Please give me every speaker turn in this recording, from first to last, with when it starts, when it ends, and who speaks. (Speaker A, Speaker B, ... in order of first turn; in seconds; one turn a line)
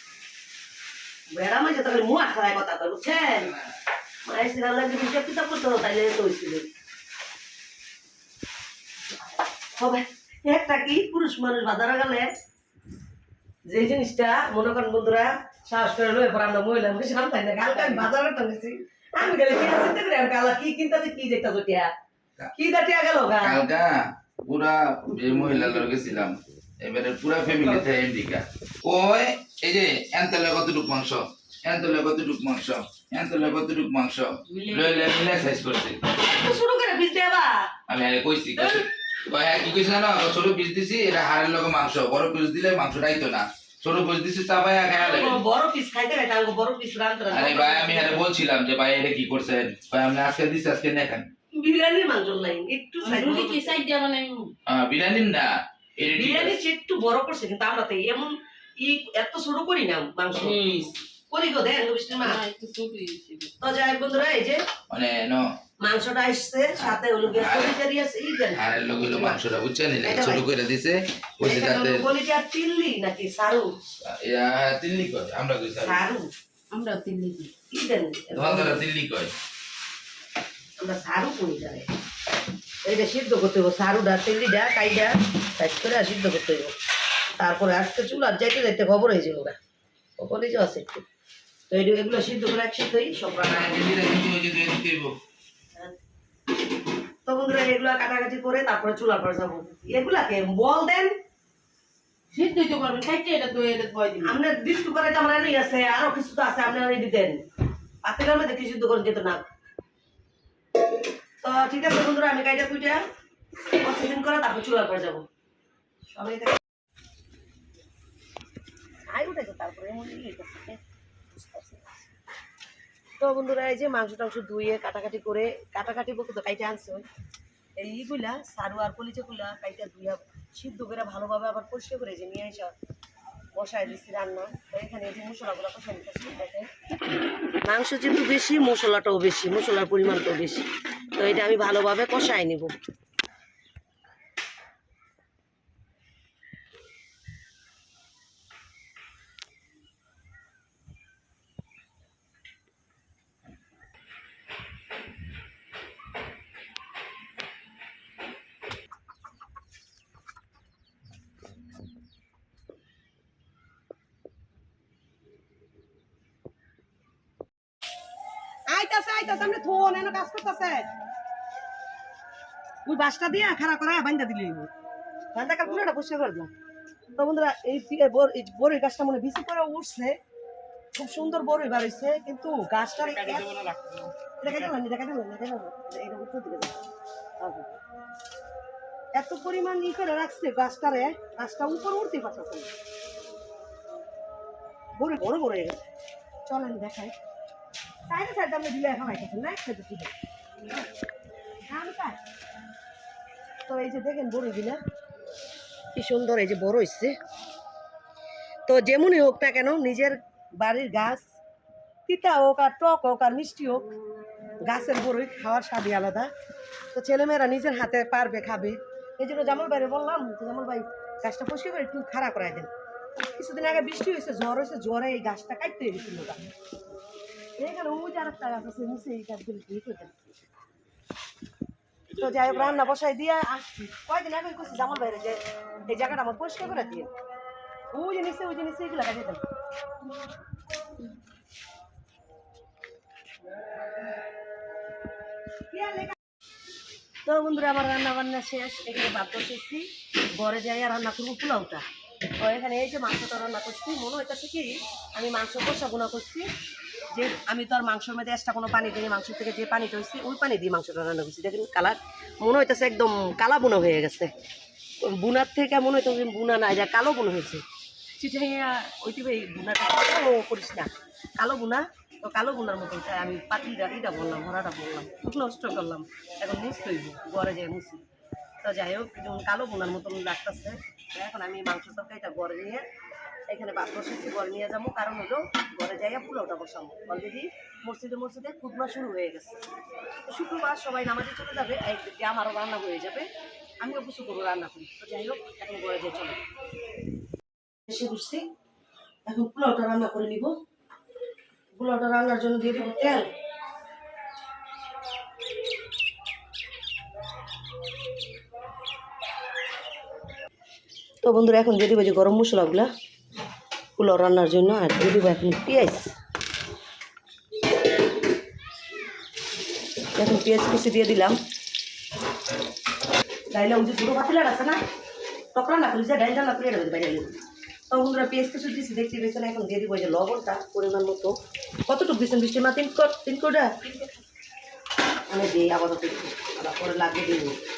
Speaker A: 1.3-3.5
Speaker B: 3.3-3.7
Speaker A: 4.2-6.7
Speaker A: 9.8-12.3
Speaker A: 13.7-21.9
Speaker C: 17.7-18.1
Speaker A: 22.5-23.6
Speaker B: 23.4-36.1
Speaker C: 34.5-35.1
Speaker A: 36.2-37.7
Speaker B: 37.9-45.4
Speaker A: 44.9-48.3
Speaker B: 47.3-51.3
Speaker A: 51.5-53.8
Speaker C: 53.0-54.5
Speaker B: 54.7-56.6
Speaker A: 56.1-62.4
Speaker C: 60.4-60.9
Speaker C: 62.1-63.5
Speaker A: 63.6-64.6
Speaker B: 64.9-65.4
Speaker A: 65.8-69.4
Speaker B: 67.3-67.7
Speaker B: 68.5-72.0
Speaker A: 70.0-70.4
Speaker A: 71.4-73.7
Speaker B: 74.0-76.0
Speaker A: 75.8-76.3
Speaker C: 76.7-77.5
Speaker A: 77.7-78.8
Speaker B: 78.3-79.3
Speaker A: 80.8-81.8
Speaker A: 82.8-86.7
Speaker A: 87.4-89.6
Speaker A: 90.2-91.0
Speaker A: 91.7-93.7
Speaker B: 93.3-95.2
Speaker A: 97.2-101.1
Speaker C: 102.3-104.3
Speaker A: 104.2-107.4
Speaker A: 108.0-109.5
Speaker A: 111.4-113.0
Speaker A: 113.8-115.2
Speaker A: 116.1-116.6
Speaker A: 119.1-120.8
Speaker A: 121.3-122.0
Speaker A: 123.2-127.0
Speaker A: 127.8-132.7
Speaker A: 133.6-136.7
Speaker A: 137.6-142.7
Speaker A: 168.7-170.9
Speaker A: 172.8-174.7
Speaker A: 175.3-176.5
Speaker A: 177.2-180.2
Speaker A: 180.9-183.5
Speaker C: 183.0-184.1
Speaker A: 184.4-186.9
Speaker A: 187.4-187.8
Speaker A: 189.1-192.7
Speaker A: 195.0-195.8
Speaker A: 196.4-197.1
Speaker A: 198.1-200.1
Speaker A: 201.7-202.2
Speaker A: 203.7-204.8
Speaker A: 205.9-207.2
Speaker A: 208.7-211.3
Speaker A: 212.1-213.8
Speaker A: 214.6-216.3
Speaker A: 216.9-222.7
Speaker A: 223.3-226.4
Speaker A: 227.6-230.2
Speaker A: 232.1-237.1
Speaker A: 237.9-239.4
Speaker A: 245.7-246.1
Speaker A: 247.2-251.8
Speaker A: 252.4-256.4
Speaker A: 257.1-264.3
Speaker A: 265.0-267.6
Speaker A: 268.2-278.0
Speaker A: 278.6-282.8
Speaker A: 283.5-289.6
Speaker A: 290.2-293.3
Speaker A: 293.8-296.4
Speaker A: 297.9-298.4
Speaker A: 299.2-300.5
Speaker A: 301.7-303.3
Speaker A: 311.2-312.9
Speaker A: 314.0-316.1
Speaker A: 320.2-321.4
Speaker A: 323.5-324.8
Speaker A: 325.5-327.4
Speaker A: 327.9-331.3
Speaker A: 331.9-333.9
Speaker A: 335.3-337.6